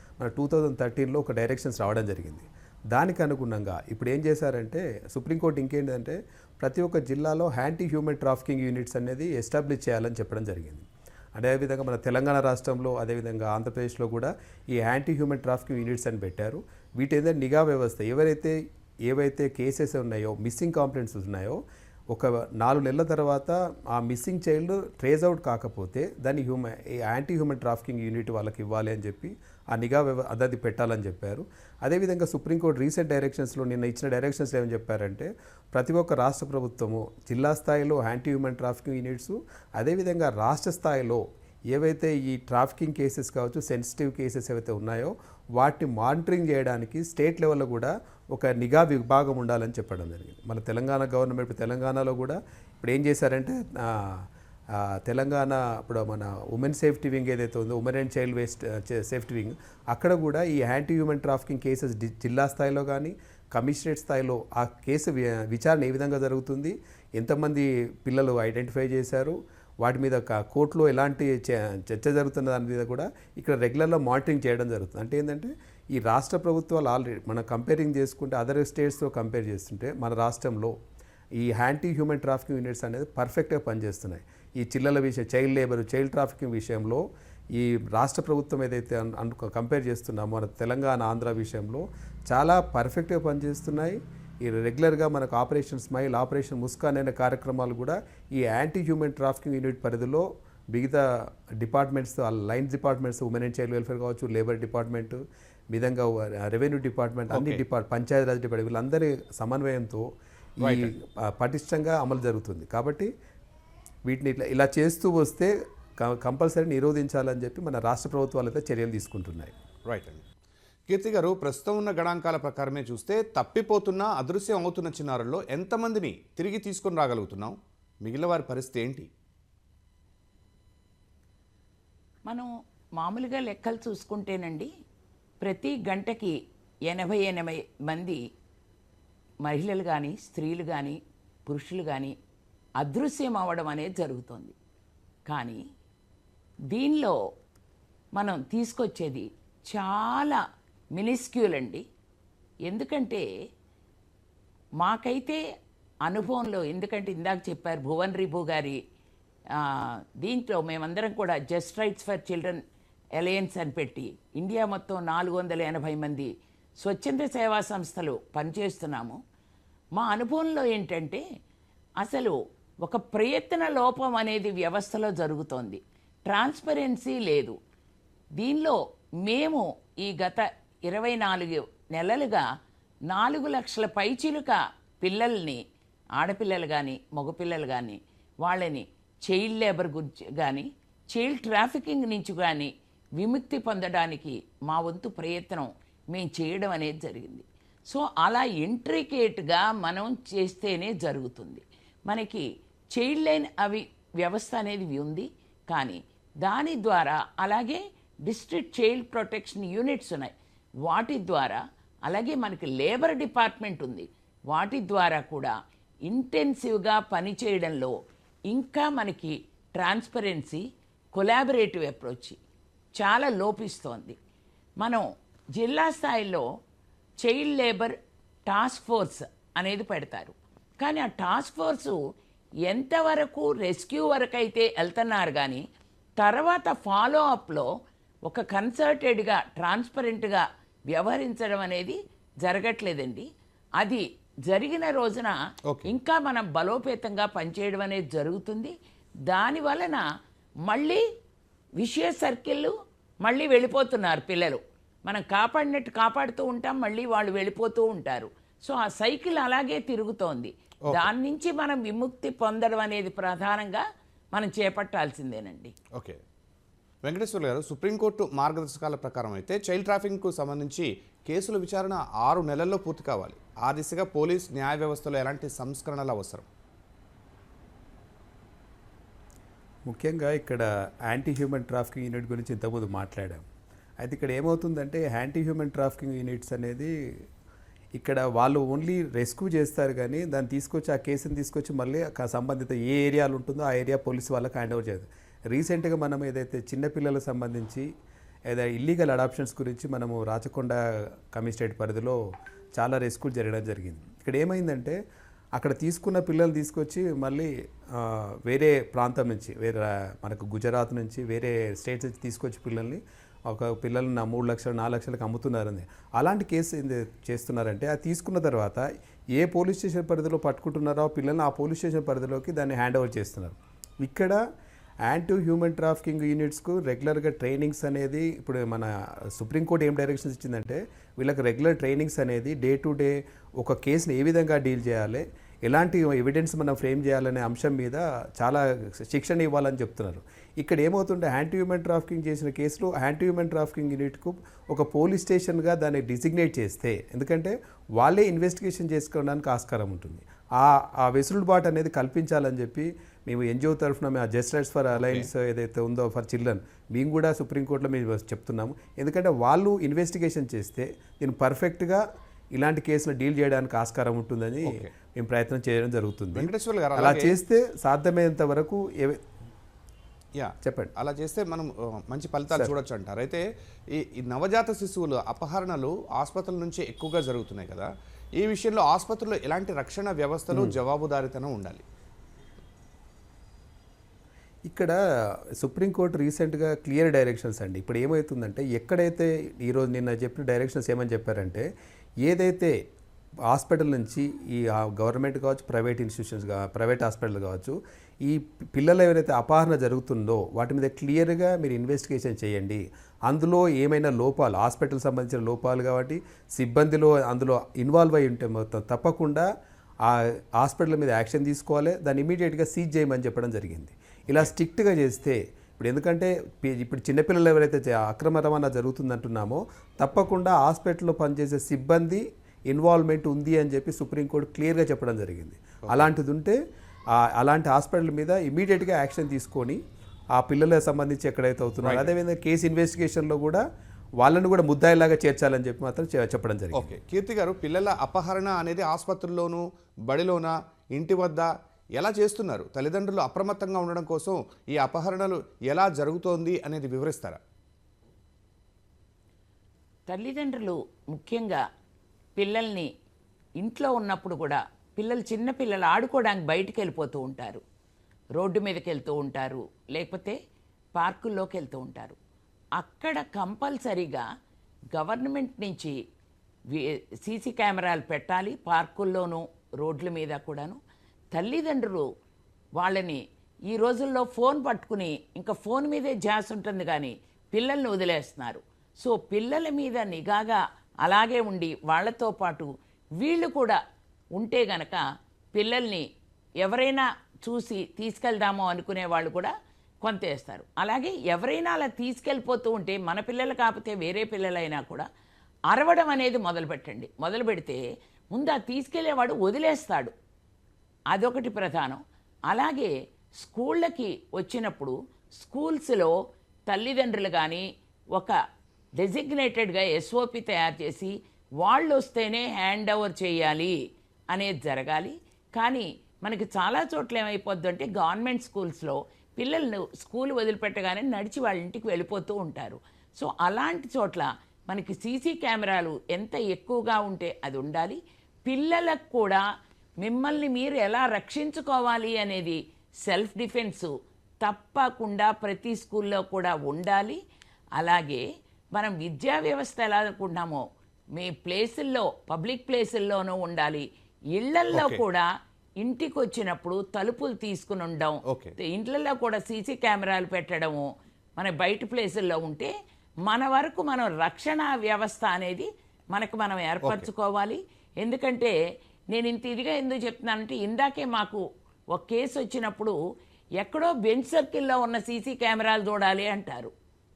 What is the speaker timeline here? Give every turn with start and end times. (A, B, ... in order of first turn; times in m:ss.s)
0:00.2-1:20.7 A
1:21.4-1:45.2 A
1:45.7-1:50.0 A
1:47.3-1:47.6 B
1:50.6-1:53.1 A
1:50.6-1:50.9 B
1:54.1-1:59.5 A
1:59.8-2:00.2 B
2:00.9-2:09.1 B
2:12.3-2:14.7 C
2:15.4-2:16.4 C
2:16.9-2:18.2 C
2:19.4-2:22.1 C
2:22.8-2:24.5 C
2:25.3-2:25.6 C
2:26.7-2:27.2 C
2:28.2-2:30.4 C
2:30.9-2:31.8 C
2:32.7-2:33.2 C
2:34.8-2:35.4 C
2:36.0-2:38.8 C
2:39.6-2:42.6 C
2:43.2-2:46.3 C
2:46.8-2:49.2 C
2:50.0-2:51.2 C
2:52.0-2:57.6 C
2:58.4-3:02.4 C
3:03.1-3:05.6 C
3:06.2-3:30.3 C
3:30.8-3:35.5 C
3:36.1-3:37.9 C
3:38.5-3:40.6 C
3:41.1-3:42.4 C
3:43.0-3:44.2 C
3:45.6-3:46.4 C
3:47.2-3:47.9 C
3:48.5-3:52.0 C
3:52.7-3:55.6 C
3:56.2-3:57.7 C
3:58.2-4:03.3 C
4:03.8-4:05.4 C
4:05.9-4:08.7 C
4:09.3-4:10.0 C
4:10.6-4:11.0 C
4:11.8-4:25.7 C
4:25.9-4:26.2 B
4:27.0-4:36.5 B
4:39.9-4:43.4 A
4:44.0-4:47.2 A
4:47.9-4:57.9 A
4:58.5-5:02.2 A
5:02.8-5:05.0 A
5:05.6-5:24.4 A
5:25.0-6:02.0 A
5:55.0-5:55.3 B
6:02.5-6:09.2 A
6:04.6-6:04.9 B
6:06.4-6:07.4 B
6:10.3-6:21.8 B
6:10.6-6:10.9 A
6:20.5-6:20.8 A
6:24.7-6:25.0 A
6:25.6-6:31.6 A
6:32.2-6:32.8 A
6:33.5-6:49.4 A
6:50.0-7:06.6 A
7:05.8-7:06.1 B
7:07.1-7:09.8 A
7:10.3-7:13.6 A
7:11.8-7:12.1 B
7:14.2-7:16.9 A
7:16.7-7:27.4 B
7:30.1-7:31.6 C
7:32.4-7:32.9 C
7:33.6-7:37.6 C
7:38.4-7:40.4 C
7:41.0-7:42.2 C
7:42.8-7:44.2 C
7:44.9-7:45.9 C
7:46.7-7:50.8 C
7:51.3-7:52.1 C
7:52.8-8:03.8 C
8:04.4-8:05.0 C
8:05.5-8:06.0 C
8:06.6-8:15.0 C
8:15.7-8:17.8 C
8:18.3-8:20.1 C
8:21.1-8:26.1 C
8:26.7-8:28.4 C
8:29.0-8:33.8 C
8:34.3-8:49.4 C
8:50.0-8:53.9 C
8:54.4-8:57.2 C
8:57.8-8:58.2 C
8:58.7-9:00.6 C
9:01.1-9:05.3 C
9:04.7-9:05.0 B
9:05.8-9:12.7 C
9:08.3-9:08.6 B
9:13.2-9:18.5 C
9:19.1-9:23.0 C
9:23.6-9:26.7 C